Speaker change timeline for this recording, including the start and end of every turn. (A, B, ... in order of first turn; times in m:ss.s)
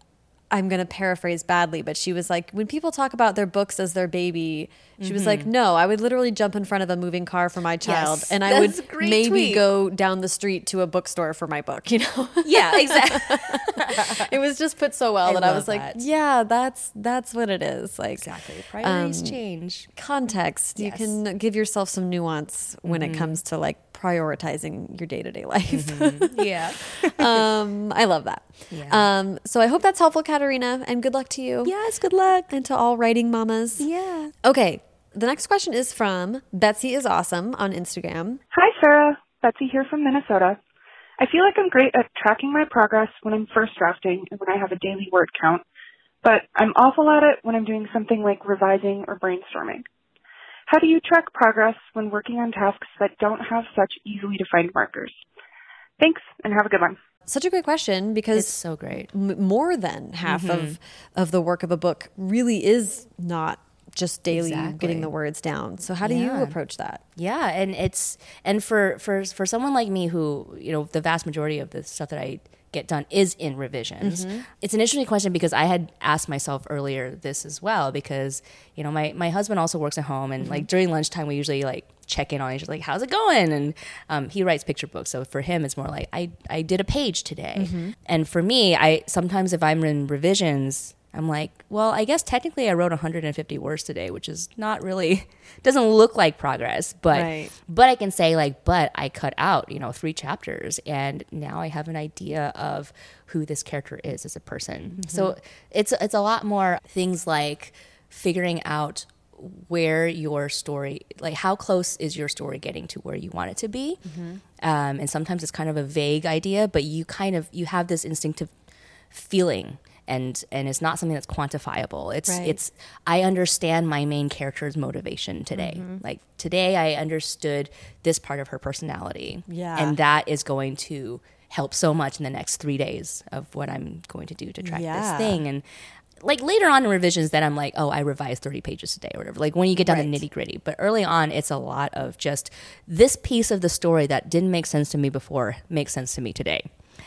0:00.5-0:19.4 A
0:05.0-0:05.5 B
0:07.8-0:09.6 B
0:12.4-0:14.2 B
0:15.2-0:16.0 B
0:18.2-0:19.9 B
0:19.9-0:31.7 A
0:20.8-0:21.2 B
0:22.8-0:23.4 B
0:25.7-0:27.5 B
0:28.7-0:29.1 B
0:31.6-0:32.5 B
0:32.5-0:33.9 A
0:33.8-0:34.3 B
0:34.4-0:38.4 A
0:38.5-0:40.6 C
0:41.2-0:45.6 C
0:46.2-0:49.8 C
0:50.7-0:55.2 C
0:56.0-0:57.0 C
0:57.3-1:07.0 A
0:58.3-0:59.1 B
1:00.2-1:00.8 B
1:04.3-1:05.1 B
1:06.0-1:06.5 B
1:07.2-1:54.0 B
1:14.0-1:14.4 A
1:20.4-1:20.6 A
1:27.5-1:27.9 A
1:37.1-1:37.5 A
1:45.0-1:45.3 A
1:54.0-1:54.4 A
1:54.6-1:58.5 B
1:59.1-2:15.6 B
2:02.3-2:02.6 A
2:05.5-2:06.0 A
2:09.5-2:10.0 A
2:14.6-2:15.4 A
2:16.2-2:26.6 B
2:19.8-2:20.2 A